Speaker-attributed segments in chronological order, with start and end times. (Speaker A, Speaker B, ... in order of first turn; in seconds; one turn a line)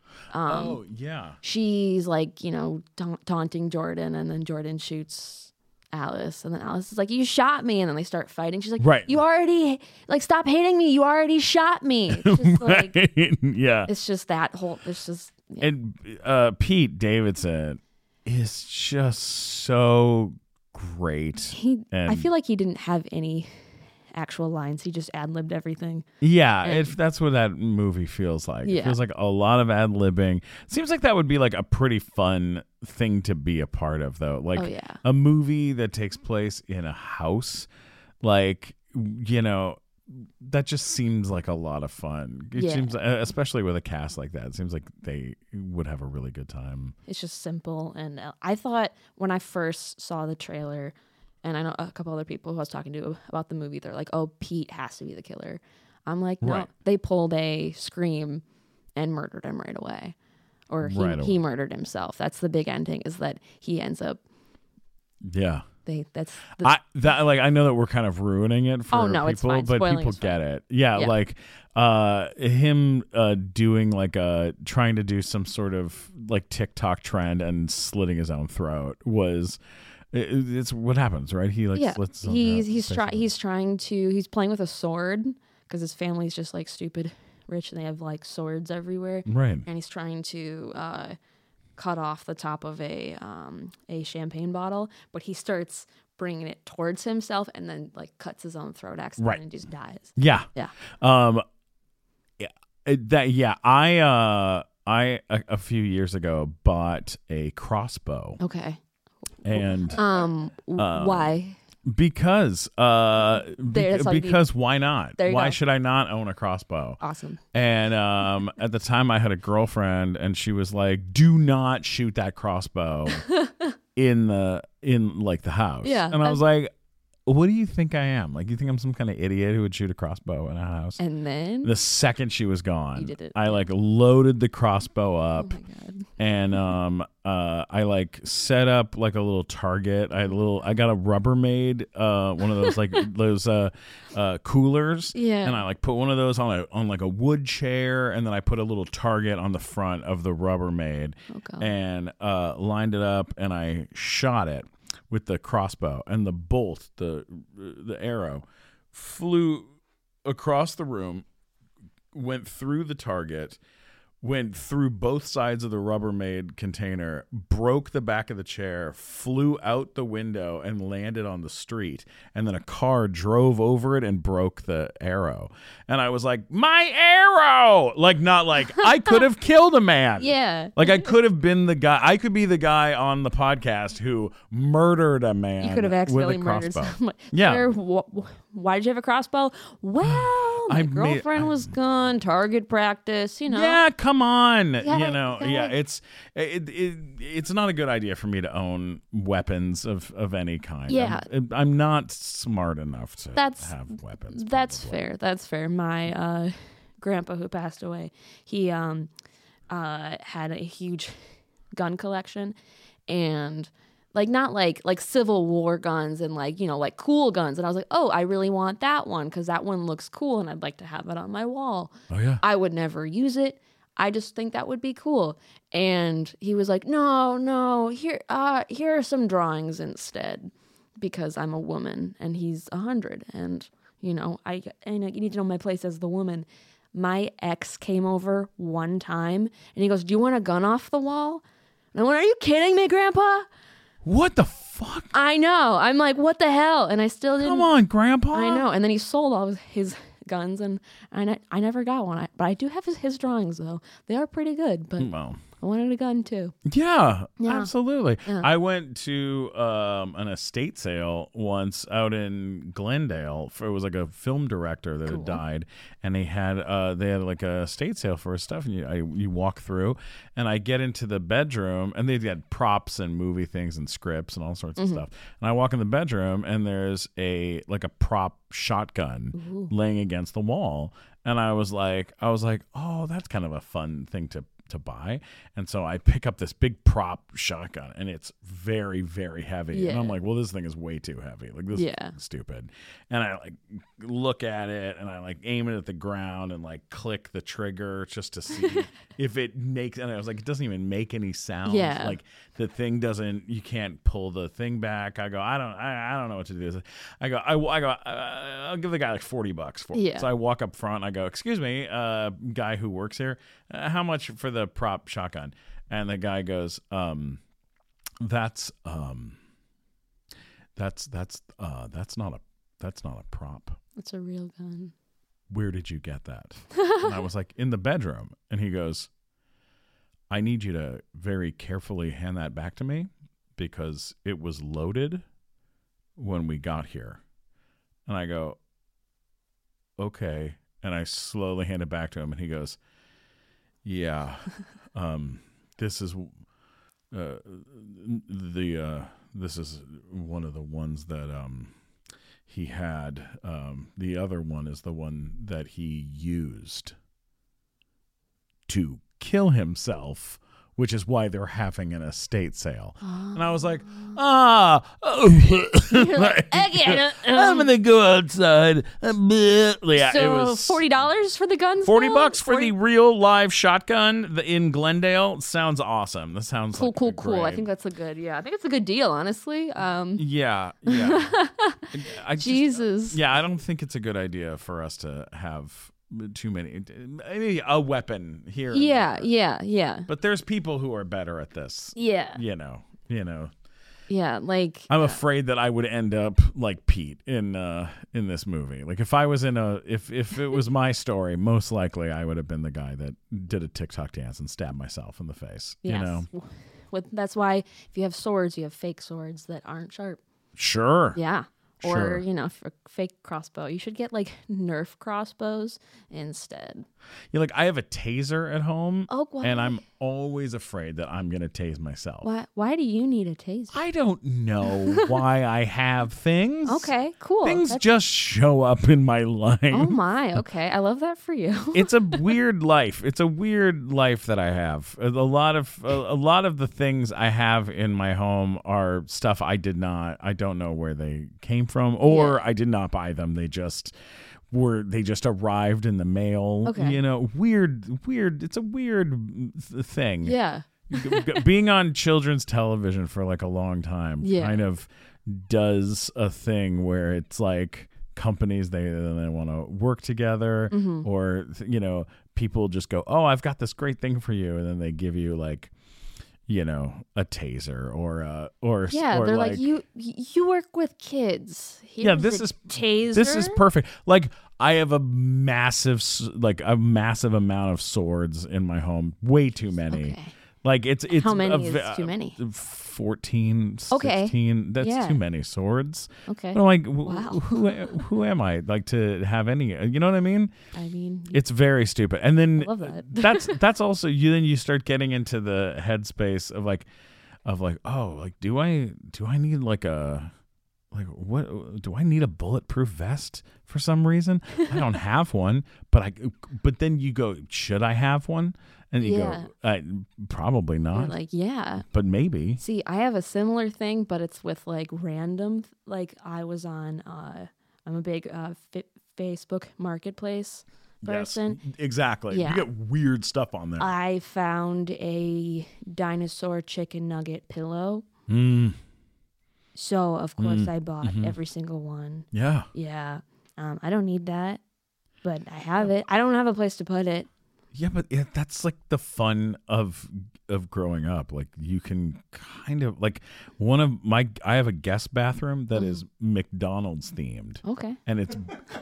Speaker A: 0.3-0.8
Speaker B: 0.5-1.4
Speaker A: 1.4-13.0
Speaker B: 8.8-9.2
Speaker B: 12.1-13.9
Speaker A: 13.9-15.7
Speaker B: 15.6-22.3
Speaker A: 21.5-23.5
Speaker A: 24.1-26.1
Speaker B: 26.2-37.7
Speaker A: 26.6-26.9
Speaker A: 28.6-28.9
Speaker A: 34.5-35.0
Speaker B: 38.2-46.9
Speaker A: 42.5-42.9
Speaker A: 47.0-58.4
Speaker B: 56.4-56.7
Speaker A: 59.0-60.1
Speaker A: 60.7-64.2
Speaker B: 60.8-61.4
Speaker B: 65.2-65.6
Speaker A: 65.8-66.7
Speaker B: 66.6-79.6
Speaker A: 68.9-70.3
Speaker B: 80.1-83.3
Speaker A: 81.7-91.2
Speaker B: 89.3-89.7
Speaker A: 91.8-100.7
Speaker B: 99.2-99.4
Speaker B: 100.2-101.4
Speaker B: 102.4-108.4
Speaker A: 108.4-108.8
Speaker B: 109.4-110.0
Speaker A: 109.5-111.6
Speaker B: 110.8-111.3
Speaker B: 111.8-117.0
Speaker A: 113.6-114.4
Speaker A: 115.2-115.6
Speaker A: 117.0-117.4
Speaker B: 117.5-123.2
Speaker A: 123.2-123.7
Speaker B: 124.0-126.7
Speaker A: 125.8-126.4
Speaker B: 127.2-131.0
Speaker A: 131.0-131.7
Speaker B: 131.6-135.6
Speaker A: 132.9-133.7
Speaker A: 135.4-136.1
Speaker B: 136.2-159.7
Speaker A: 145.1-145.6
Speaker A: 151.3-151.7
Speaker B: 160.2-161.2
Speaker B: 162.1-163.6
Speaker B: 164.2-187.7
Speaker A: 178.8-179.1
Speaker A: 180.2-181.1
Speaker A: 185.6-193.8
Speaker B: 190.0-191.7
Speaker B: 193.5-205.0
Speaker A: 194.8-195.7
Speaker A: 200.9-201.2
Speaker A: 203.3-203.7
Speaker A: 204.3-209.1
Speaker A: 209.7-211.2
Speaker A: 211.7-212.5
Speaker A: 213.1-241.4
Speaker B: 222.1-222.4
Speaker A: 241.9-243.5
Speaker B: 244.0-245.1
Speaker A: 245.1-247.7
Speaker B: 247.4-248.7
Speaker A: 248.3-256.5
Speaker B: 255.0-255.4
Speaker B: 256.6-317.4
Speaker A: 257.4-257.7
Speaker A: 265.1-265.4
Speaker A: 279.3-279.7
Speaker A: 289.7-290.1
Speaker A: 291.7-292.1
Speaker A: 301.6-302.2
Speaker A: 309.9-310.3
Speaker B: 318.2-319.4
Speaker B: 320.8-323.8
Speaker A: 324.0-324.9
Speaker B: 325.5-329.1
Speaker A: 326.8-327.1
Speaker B: 330.3-335.2
Speaker B: 336.2-337.2
Speaker B: 338.1-338.6
Speaker B: 340.0-342.8
Speaker B: 343.8-346.3
Speaker B: 347.1-351.7
Speaker B: 352.5-356.9
Speaker B: 358.7-370.8
Speaker A: 363.0-364.1
Speaker A: 365.9-367.7
Speaker A: 369.9-372.7
Speaker B: 371.8-377.6
Speaker A: 376.7-380.2
Speaker B: 380.2-381.3
Speaker A: 380.9-383.2
Speaker B: 381.9-389.3
Speaker A: 388.7-390.1
Speaker B: 390.1-393.5
Speaker A: 391.9-392.4
Speaker A: 394.1-395.2
Speaker B: 394.9-406.3
Speaker A: 405.8-410.2
Speaker B: 410.6-411.2
Speaker A: 411.1-416.9
Speaker B: 411.8-412.2
Speaker B: 417.3-422.3
Speaker A: 419.1-419.8
Speaker A: 422.2-423.8
Speaker B: 423.7-426.9
Speaker A: 426.6-427.8
Speaker B: 427.4-429.9
Speaker A: 429.7-432.2
Speaker B: 431.7-443.9
Speaker A: 442.0-442.4
Speaker B: 444.5-450.4
Speaker A: 446.6-447.0
Speaker A: 450.2-451.4
Speaker B: 450.9-465.7
Speaker A: 454.2-454.6
Speaker A: 460.7-461.1
Speaker B: 466.5-469.7
Speaker A: 468.9-473.6
Speaker B: 472.0-490.5
Speaker A: 479.9-480.3
Speaker A: 481.1-482.4
Speaker A: 483.9-485.2
Speaker A: 486.3-487.7
Speaker A: 490.7-491.4
Speaker B: 491.3-496.9
Speaker A: 492.6-493.6
Speaker B: 497.4-500.3
Speaker B: 500.9-511.1
Speaker A: 509.0-509.5
Speaker A: 510.9-511.8
Speaker B: 511.8-512.6
Speaker A: 512.6-521.6
Speaker B: 521.0-523.9
Speaker A: 522.3-522.7
Speaker A: 523.8-528.1
Speaker B: 528.3-528.8
Speaker A: 529.7-534.6
Speaker B: 530.4-531.4
Speaker B: 532.3-532.7
Speaker A: 535.2-537.3
Speaker B: 537.7-548.6
Speaker A: 545.7-546.0
Speaker A: 547.6-548.0